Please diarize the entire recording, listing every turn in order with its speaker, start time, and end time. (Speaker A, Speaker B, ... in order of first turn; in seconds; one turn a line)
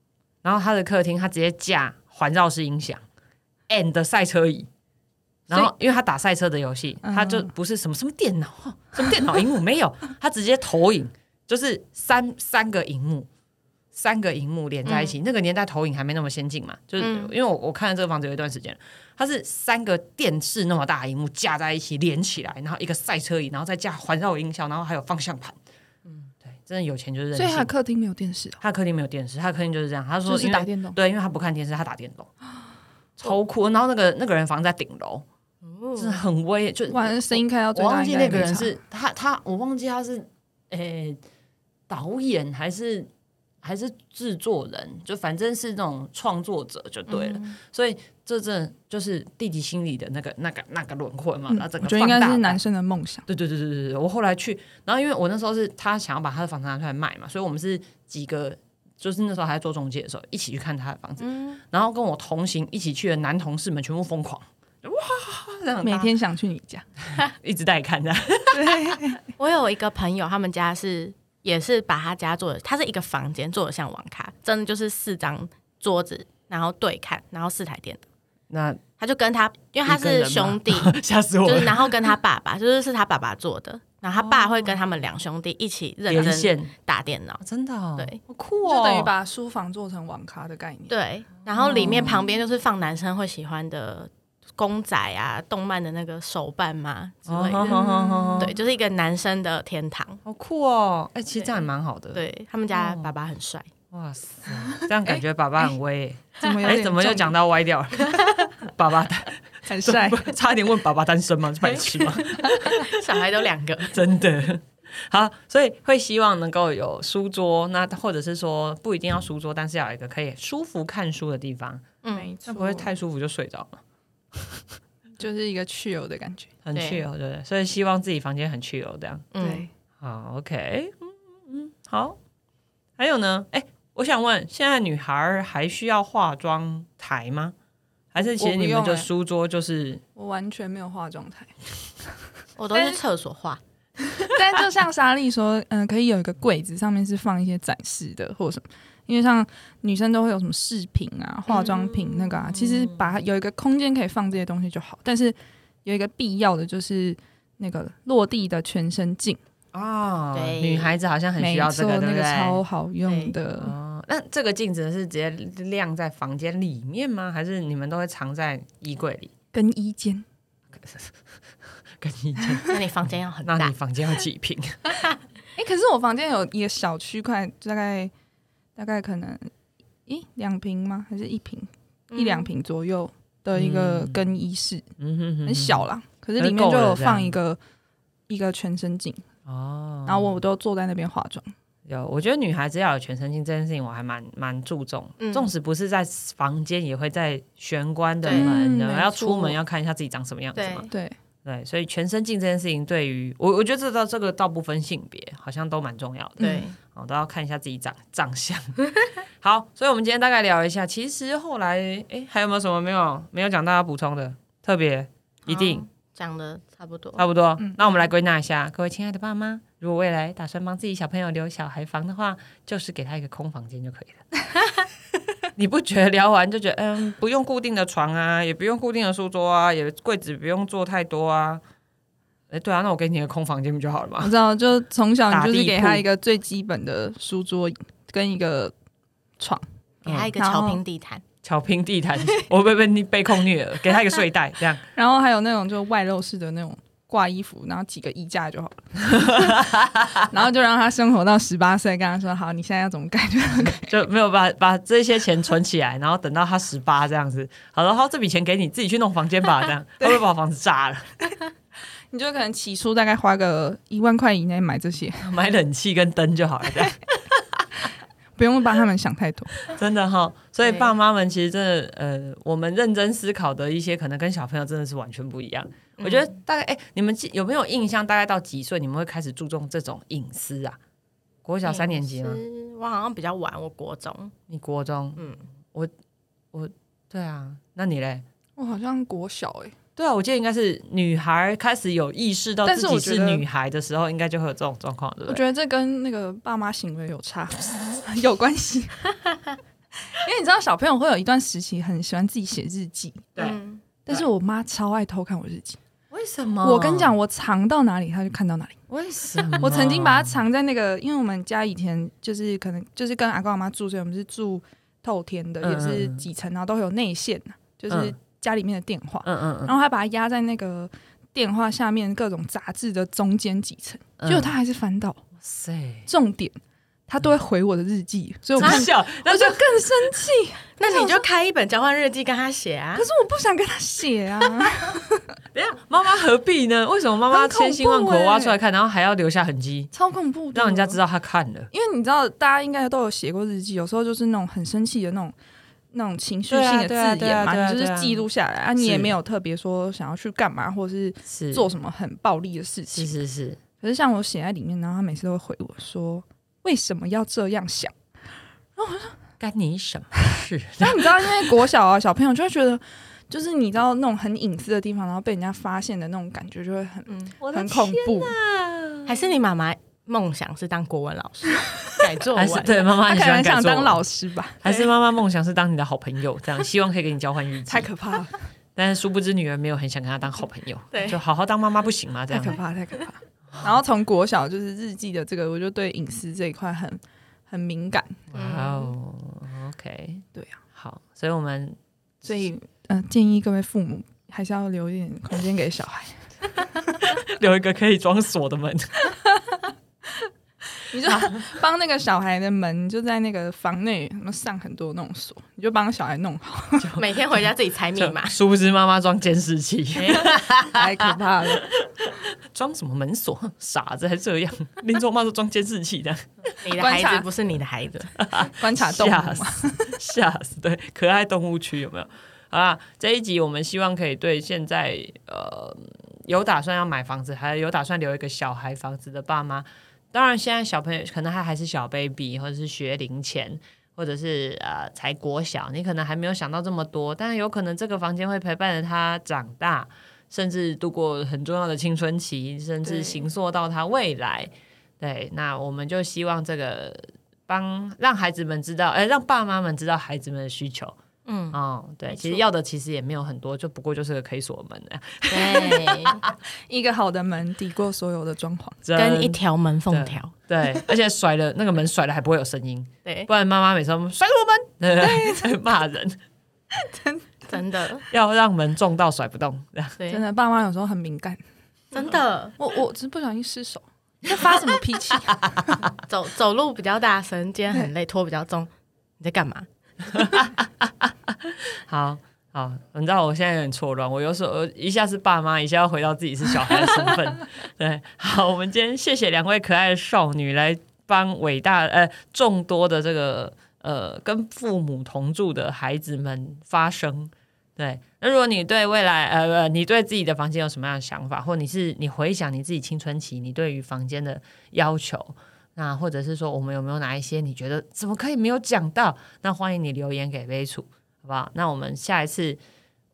Speaker A: 0.4-3.0
Speaker A: 3.7-4.7
Speaker A: 5.5-13.3
Speaker B: 7.0-7.5
Speaker A: 13.9-25.6
Speaker C: 14.9-15.2
Speaker C: 17.0-17.3
Speaker A: 26.4-27.7
Speaker B: 27.3-28.6
Speaker A: 28.6-32.3
Speaker B: 30.3-31.0
Speaker A: 33.2-35.3
Speaker C: 35.6-36.2
Speaker A: 36.0-41.2
Speaker B: 36.9-38.8
Speaker A: 41.9-43.1
Speaker A: 43.6-52.6
Speaker C: 47.1-47.6
Speaker B: 51.5-53.2
Speaker A: 53.3-66.1
Speaker C: 61.2-61.6
Speaker B: 65.8-66.9
Speaker A: 67.1-69.0
Speaker B: 68.5-69.2
Speaker C: 69.4-78.0
Speaker A: 78.5-78.8
Speaker C: 79.0-87.4
Speaker A: 79.9-82.1
Speaker A: 84.2-84.8
Speaker A: 86.1-86.7
Speaker A: 87.4-89.1
Speaker B: 88.7-91.0
Speaker C: 90.9-100.2
Speaker A: 91.6-92.3
Speaker A: 97.3-98.6
Speaker B: 97.7-98.5
Speaker A: 100.2-103.1
Speaker C: 101.4-103.7
Speaker A: 103.9-112.9
Speaker B: 106.4-107.3
Speaker C: 108.0-108.5
Speaker B: 109.7-110.3
Speaker C: 111.8-114.0
Speaker B: 112.4-112.8
Speaker A: 113.9-121.9
Speaker C: 122.0-122.3
Speaker B: 122.1-122.9
Speaker A: 122.5-123.8
Speaker A: 124.3-124.7
Speaker B: 125.2-126.5
Speaker A: 126.6-129.3
Speaker C: 126.7-127.0
Speaker C: 129.3-129.7
Speaker B: 129.4-129.7
Speaker A: 130.0-132.2
Speaker A: 133.0-137.6
Speaker A: 138.1-140.0
Speaker B: 138.2-139.1
Speaker B: 140.2-141.5
Speaker C: 142.6-143.6
Speaker B: 142.7-143.0
Speaker B: 144.2-159.4
Speaker C: 151.5-151.9
Speaker A: 151.7-153.2
Speaker A: 159.7-162.6
Speaker C: 160.3-161.0
Speaker B: 161.4-163.7
Speaker C: 163.1-163.4
Speaker A: 163.6-169.3
Speaker B: 169.5-170.3
Speaker A: 170.7-171.2
Speaker A: 171.9-172.8
Speaker C: 172.7-173.7
Speaker A: 173.4-174.9
Speaker B: 175.6-178.1
Speaker B: 178.8-179.5
Speaker B: 180.1-184.9
Speaker C: 182.1-182.5
Speaker A: 183.5-184.2
Speaker A: 185.0-185.8
Speaker B: 185.4-187.6
Speaker A: 186.4-187.3
Speaker B: 188.3-189.3
Speaker A: 189.5-190.4
Speaker B: 190.1-191.5
Speaker A: 191.9-200.9
Speaker C: 195.2-195.5
Speaker C: 198.2-198.5
Speaker B: 198.3-199.6
Speaker C: 200.6-200.9
Speaker B: 200.9-201.2
Speaker A: 201.4-208.8
Speaker B: 206.4-206.7
Speaker C: 206.4-206.8
Speaker A: 209.4-215.8
Speaker C: 215.5-217.2
Speaker A: 217.2-224.2
Speaker B: 217.6-218.0
Speaker A: 225.6-231.6
Speaker A: 232.5-234.3
Speaker B: 234.2-238.7
Speaker A: 235.3-236.1
Speaker B: 239.4-239.7
Speaker A: 240.1-240.3
Speaker C: 240.1-241.2
Speaker B: 240.4-240.8
Speaker A: 241.4-244.8
Speaker B: 244.9-249.7
Speaker A: 249.1-250.3
Speaker B: 250.3-253.9
Speaker A: 253.6-261.3
Speaker B: 262.1-265.3
Speaker A: 265.2-267.8
Speaker B: 268.4-269.6
Speaker A: 269.6-280.8
Speaker C: 270.7-270.9
Speaker C: 276.0-276.4
Speaker A: 281.4-282.4
Speaker C: 281.6-284.4
Speaker A: 284.5-285.9
Speaker C: 285.2-285.4
Speaker A: 286.5-288.2
Speaker B: 288.6-289.8
Speaker A: 290.0-295.4
Speaker B: 292.6-293.4
Speaker B: 295.3-299.1
Speaker B: 300.1-303.3
Speaker A: 303.4-304.3
Speaker C: 303.4-303.8
Speaker B: 304.1-305.8
Speaker A: 306.1-307.1
Speaker B: 306.6-308.8
Speaker A: 308.9-310.4
Speaker B: 309.5-325.2
Speaker A: 315.6-316.3
Speaker A: 319.2-319.7
Speaker A: 324.2-324.5
Speaker A: 325.4-326.1
Speaker B: 326.1-331.2
Speaker A: 328.6-330.0
Speaker C: 330.8-333.1
Speaker B: 333.0-335.3
Speaker A: 335.5-339.9
Speaker B: 337.3-338.6
Speaker B: 339.9-341.0
Speaker A: 340.5-341.7
Speaker B: 341.7-345.3
Speaker B: 345.9-353.2
Speaker A: 346.5-348.2
Speaker A: 348.8-349.1
Speaker A: 351.3-351.7
Speaker A: 352.9-353.6
Speaker B: 353.8-357.9
Speaker B: 358.8-359.2
Speaker A: 359.4-361.5
Speaker B: 360.8-368.4
Speaker C: 367.1-367.3
Speaker A: 367.4-369.4
Speaker C: 369.1-372.8
Speaker B: 371.7-372.0
Speaker A: 372.4-374.1
Speaker B: 373.0-374.9
Speaker A: 374.6-377.9
Speaker B: 377.7-378.4
Speaker A: 378.8-382.6
Speaker C: 380.9-381.2
Speaker B: 382.3-388.2
Speaker A: 383.5-383.8
Speaker A: 388.3-391.8
Speaker C: 388.3-388.9
Speaker B: 390.3-390.6
Speaker B: 392.2-397.2
Speaker A: 397.1-398.9
Speaker B: 400.8-407.0
Speaker A: 401.1-401.4
Speaker A: 406.8-407.1
Speaker C: 407.0-408.4
Speaker A: 408.0-416.6
Speaker B: 410.1-411.7
Speaker C: 416.6-418.1
Speaker B: 416.8-417.3
Speaker A: 418.2-451.0
Speaker B: 418.4-420.0
Speaker B: 442.9-443.2
Speaker C: 451.3-451.6
Speaker A: 451.5-456.3
Speaker C: 452.1-452.4
Speaker C: 455.3-456.2
Speaker B: 456.7-458.8
Speaker A: 458.8-466.2
Speaker C: 459.0-460.3
Speaker B: 465.0-465.5
Speaker B: 466.7-467.6
Speaker C: 467.5-468.1
Speaker A: 468.1-470.0
Speaker C: 470.0-470.2
Speaker B: 470.1-471.4
Speaker C: 471.9-472.6
Speaker B: 472.6-475.9
Speaker A: 475.5-475.9
Speaker C: 476.1-479.7
Speaker A: 480.1-512.6